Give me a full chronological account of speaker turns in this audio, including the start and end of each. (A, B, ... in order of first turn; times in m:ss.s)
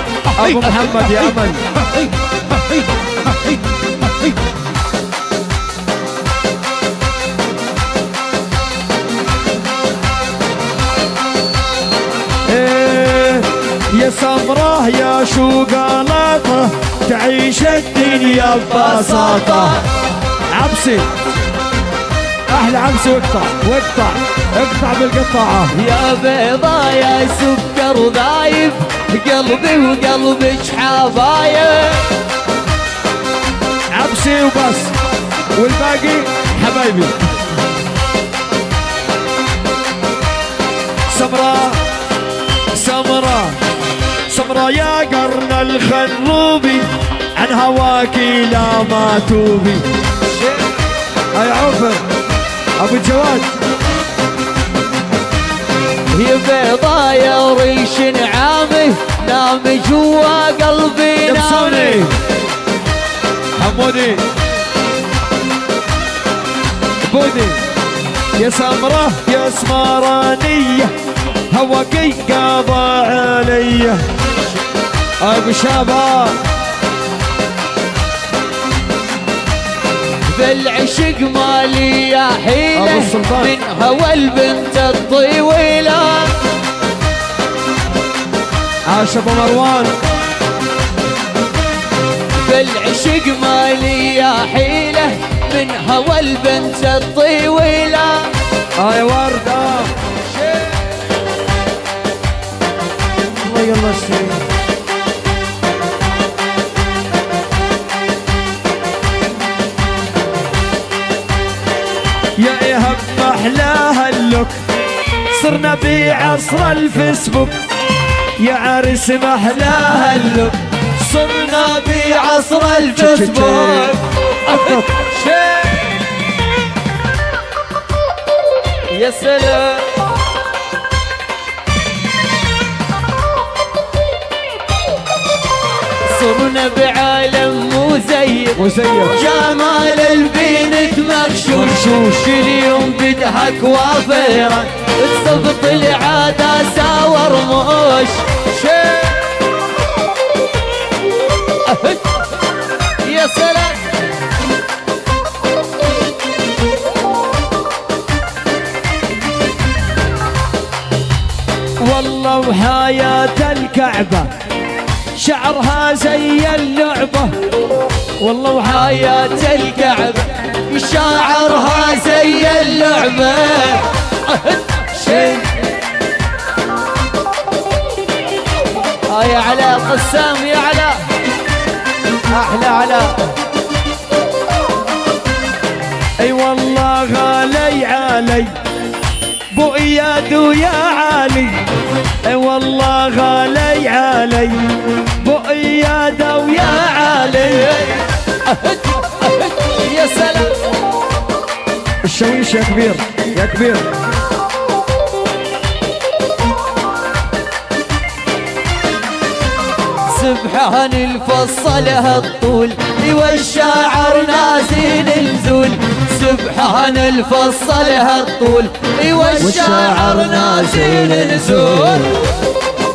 0:00.3-0:01.6 A
0:12.5-0:19.8 A
0:18.4-0:19.8 B
0:20.5-0:21.1 A
0:22.5-0:25.7 A
0:25.7-0:32.1 B
0:33.9-0:34.9 A
0:35.5-0:37.2 A
0:41.1-0:41.8 A
0:42.7-0:43.6 A
0:44.3-0:49.8 A
0:50.3-0:50.7 B
0:51.3-0:52.0 A
0:52.8-0:53.5 A
0:56.1-1:02.1 B
1:01.2-1:02.2 A
1:03.6-1:04.2 A
1:07.0-1:07.6 A
1:08.3-1:10.9 A
1:11.5-1:14.0 A
1:15.2-1:16.4 A
1:20.2-1:26.4 B
1:22.7-1:23.5 A
1:28.9-1:30.0 A
1:32.3-1:38.3 B
1:38.8-1:39.9 A
1:40.4-1:40.7 B
1:43.4-1:44.4 A
1:52.4-1:54.6 A
1:55.3-1:57.6 A
1:58.4-2:00.2 A
1:59.9-2:05.9 B
2:02.9-2:04.8 A
2:08.9-2:10.0 B
2:16.0-2:29.4 B
2:18.6-2:19.2 A
2:31.6-2:32.2 B
2:33.0-2:33.8 B
2:41.8-2:44.3 A
2:45.2-2:47.3 A
2:48.2-2:48.6 A
2:48.5-2:55.6 B
2:59.1-3:01.1 B
3:02.3-3:03.3 B
3:06.2-3:08.5 A
3:09.5-3:11.6 A
3:12.2-3:14.7 A
3:15.2-3:17.7 A
3:16.7-3:20.7 B
3:22.0-3:23.9 A
3:30.0-3:42.3 B
3:39.2-3:42.1 A